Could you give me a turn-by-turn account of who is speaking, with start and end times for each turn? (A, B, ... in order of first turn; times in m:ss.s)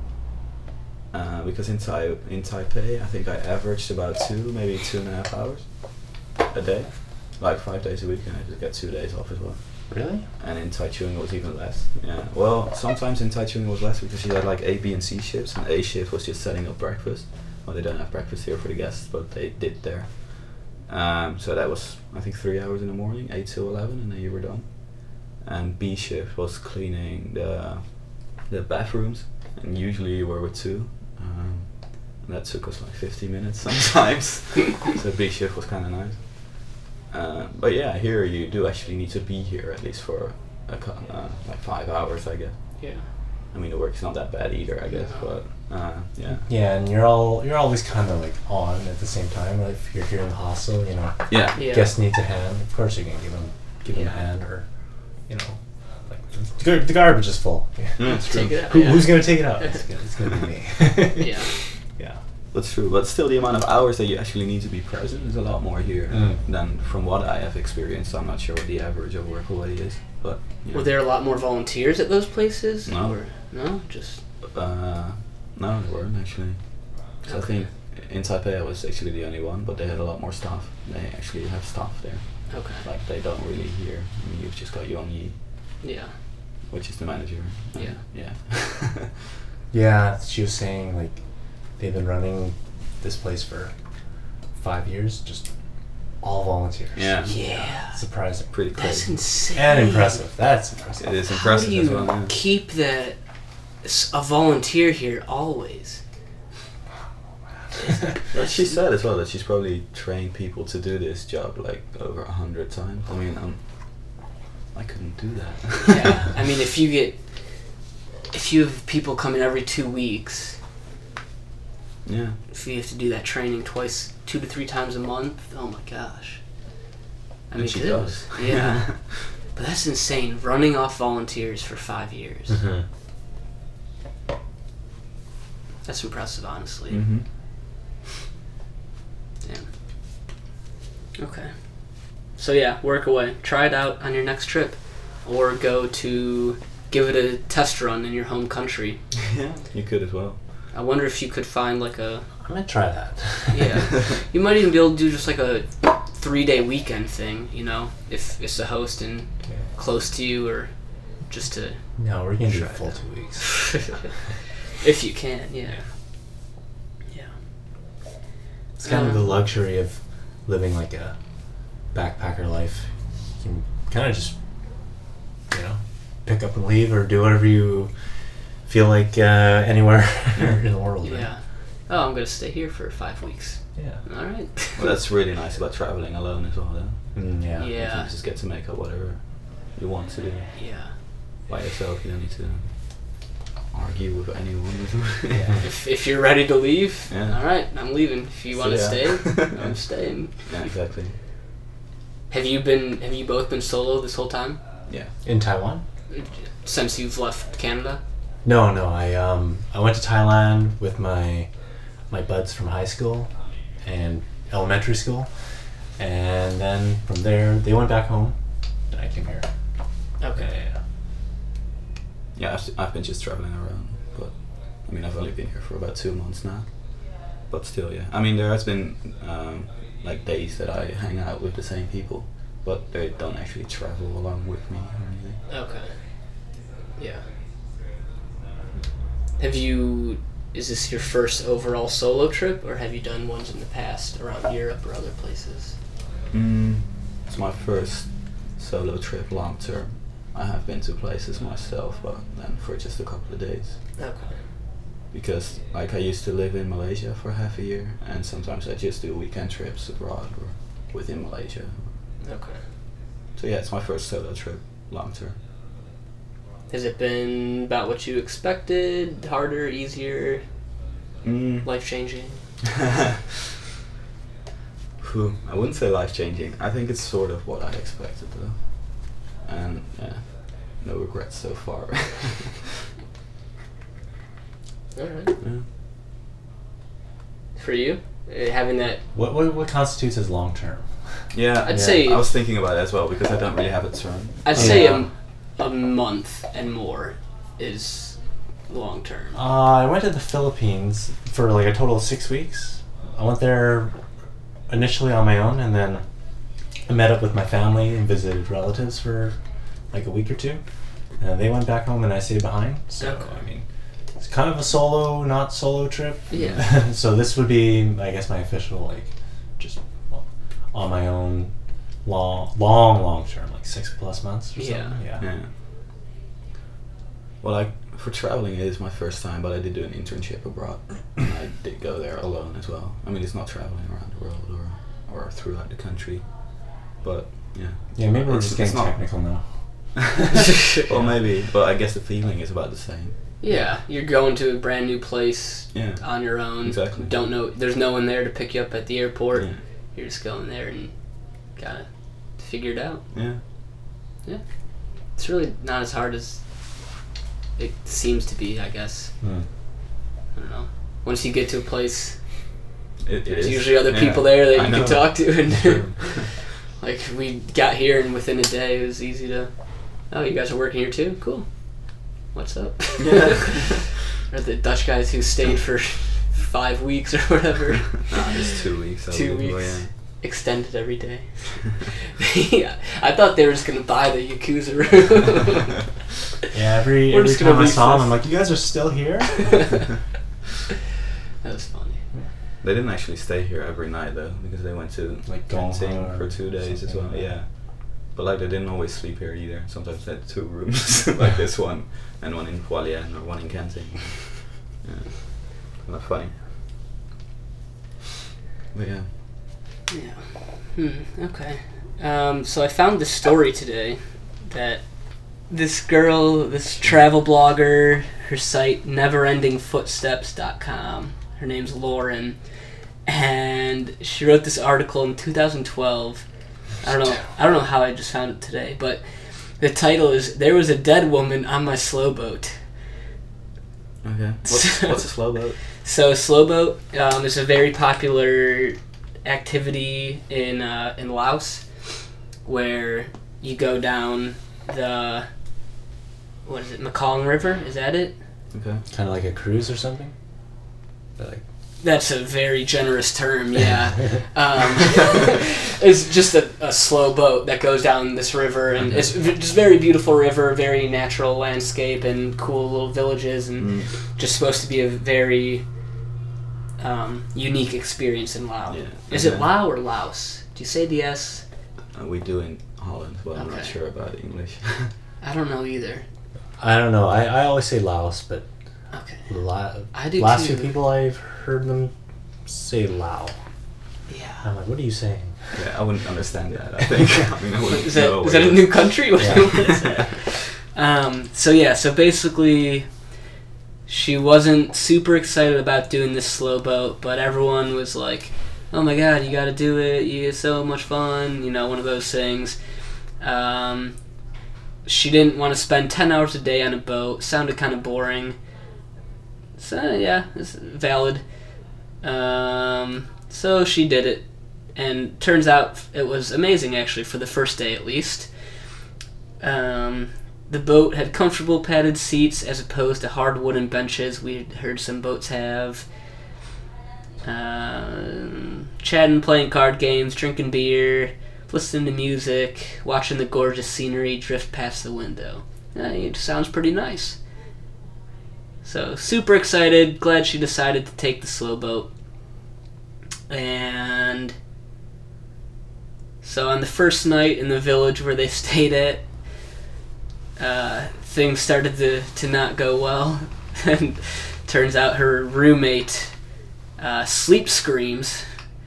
0:01.1-0:46.5 A
0:09.9-0:10.3 B
0:42.8-0:43.1 C
0:44.9-0:45.3 C
0:46.4-1:02.2 B
0:51.3-0:51.6 A
0:51.6-0:51.9 C
0:53.9-0:54.2 C
0:58.0-0:58.8 A
0:58.0-0:59.8 C
1:01.2-1:01.6 C
1:02.5-1:10.9 A
1:06.1-1:06.4 B
1:10.7-1:14.2 C
1:12.9-1:13.2 A
1:14.4-1:25.4 A
1:17.2-1:17.7 C
1:22.5-1:22.8 C
1:25.8-1:26.1 C
1:26.7-1:29.1 A
1:27.8-1:28.0 C
1:29.7-1:38.7 B
1:37.0-1:37.3 A
1:37.3-1:38.0 C
1:38.5-1:39.3 A
1:38.7-1:40.2 C
1:39.5-1:41.2 B
1:41.0-1:42.4 A
1:41.3-1:46.0 C
1:47.6-1:48.1 B
1:47.8-1:48.8 C
1:48.3-1:56.2 A
1:55.9-2:00.6 C
2:02.0-2:02.4 A
2:02.5-2:06.8 C
2:07.5-2:12.6 C
2:07.6-2:09.3 A
2:12.5-2:12.9 B
2:15.8-2:17.0 C
2:16.9-2:17.3 A
2:19.4-2:19.7 C
2:21.2-2:29.0 C
2:29.3-2:30.4 A
2:30.7-2:32.6 C
2:32.4-2:34.0 B
2:33.5-2:44.2 C
2:42.0-2:44.0 B
2:44.8-2:46.3 C
2:47.1-2:47.3 C
2:48.8-3:01.5 B
2:48.8-2:49.4 C
3:01.0-3:04.8 C
3:03.8-3:04.0 B
3:04.8-3:10.7 A
3:07.1-3:07.7 B
3:07.6-3:08.2 C
3:10.6-3:11.0 C
3:11.4-3:15.6 A
3:15.3-3:15.6 B
3:15.6-3:20.8 C
3:17.1-3:17.4 A
3:18.5-3:19.8 A
3:20.4-3:21.2 A
3:22.3-3:24.6 C
3:24.9-3:25.1 A
3:25.2-3:25.8 B
3:26.1-3:28.0 C
3:28.4-3:35.4 B
3:36.0-3:39.6 B
3:40.2-3:40.5 C
3:40.3-3:40.8 B
3:42.4-3:55.4 A
3:55.5-3:56.1 C
3:57.0-3:57.3 C
3:59.4-4:05.8 C
4:06.3-4:13.8 A
4:14.0-4:14.4 C
4:15.1-4:22.0 A
4:22.2-4:22.6 C
4:23.4-4:25.4 A
4:26.7-4:30.4 C
4:31.2-4:31.7 A
4:31.6-4:32.4 C
4:35.0-4:42.7 A
4:45.0-4:45.3 C
4:45.4-4:45.7 A
4:47.6-4:49.0 C
4:49.1-4:52.1 B
4:51.3-4:54.9 A
4:51.6-4:52.3 C
4:54.4-4:59.4 C
4:54.5-4:55.1 B
4:59.3-5:04.0 B
5:04.7-5:06.1 B
5:06.8-5:09.4 B
5:09.9-5:25.3 B
5:13.0-5:13.4 C
5:16.3-5:16.7 C
5:24.6-5:25.0 C
5:25.2-5:25.5 A
5:27.4-5:39.0 A
5:38.0-5:40.1 B
5:40.2-5:43.2 A
5:40.9-5:41.2 B
5:43.4-5:53.0 C
5:45.7-5:47.2 A
5:49.3-5:49.6 A
5:53.1-5:53.4 A
5:54.2-5:57.0 C
5:57.6-5:59.1 C
5:59.2-5:59.5 B
6:00.3-6:02.6 C
6:03.0-6:06.5 A
6:03.3-6:18.3 C
6:04.7-6:05.0 B
6:13.0-6:13.7 A
6:18.1-6:19.9 A
6:19.0-6:25.9 C
6:26.5-6:29.7 B
6:27.1-6:28.2 C
6:31.4-6:32.0 C
6:32.6-6:46.4 A
6:35.3-6:37.4 B
6:48.7-6:49.1 A
6:49.9-7:02.5 C
7:03.0-7:12.7 C
7:14.0-7:15.7 A
7:14.5-7:25.3 C
7:26.4-7:28.2 C
7:28.5-7:28.8 A
7:28.9-7:30.1 B
7:31.2-7:31.4 B
7:31.8-7:45.7 C
7:43.6-7:43.9 A
7:46.8-7:51.4 C
7:48.7-7:49.5 A
7:51.9-7:54.9 A
7:53.3-7:53.7 C
7:55.2-7:56.1 C
7:56.6-7:58.5 B
7:58.9-7:59.3 C
7:59.3-8:03.4 B
7:59.9-8:00.7 C
8:04.1-8:04.5 C
8:04.4-8:05.7 B
8:05.5-8:10.1 A
8:07.7-8:13.1 C
8:09.2-8:09.7 B
8:13.9-8:24.0 C
8:24.8-8:28.4 C
8:29.6-8:31.4 C
8:32.0-8:38.3 C
8:39.4-8:45.9 C
8:47.2-8:57.2 C
8:58.6-9:01.9 C
9:03.3-9:04.3 C
9:06.2-9:09.1 C
9:10.4-9:16.2 C
9:16.8-9:18.4 C